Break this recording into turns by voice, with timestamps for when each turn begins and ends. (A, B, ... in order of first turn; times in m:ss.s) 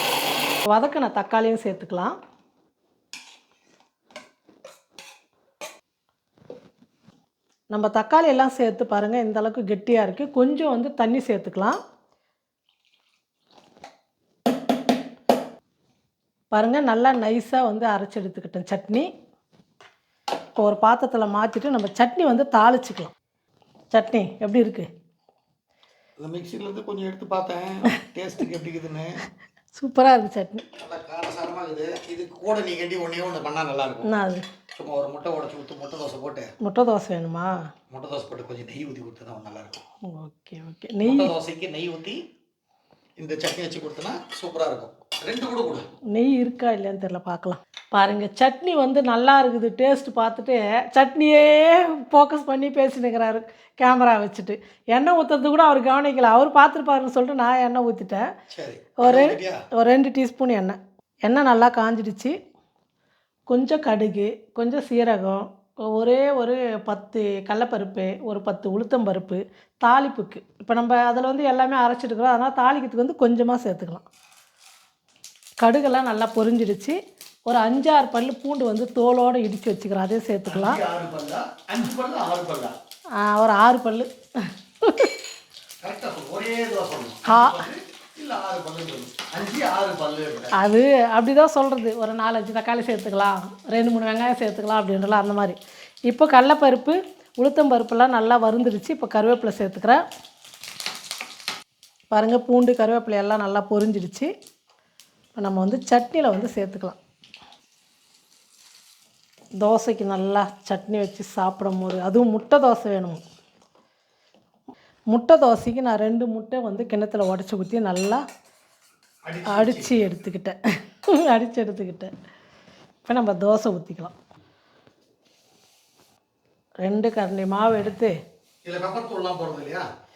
0:00.7-0:02.1 A
0:07.7-0:11.8 A
0:16.5-0:19.1 A
0:20.6-0:23.1 A
0:23.9-0:24.9 A
0:26.2-0:29.2 B
0:29.7-0:30.6 A
0:30.8-0:34.1 B
0:34.0-0:34.4 A
0:34.7-0:36.5 B
0:36.6-0:37.6 A
0:37.9-0:39.8 B
0:40.1-0:41.3 A
0:41.0-0:42.2 B
0:43.2-0:45.9 B
0:46.1-0:58.2 A
0:58.5-0:59.6 B
0:59.0-1:02.4 A
1:03.5-1:14.0 A
1:15.6-1:20.8 A
1:20.5-1:22.8 B
1:23.2-1:25.1 A
1:25.8-1:30.5 B
1:27.3-1:27.6 A
1:30.5-1:35.6 A
1:36.1-1:40.0 A
1:42.1-1:44.3 A
1:45.4-1:47.0 A
1:49.6-1:53.2 A
1:55.1-1:58.2 A
1:59.3-2:00.1 B
1:59.5-2:02.1 A
2:03.0-2:04.1 A
2:06.8-2:08.1 A
2:08.6-2:09.8 B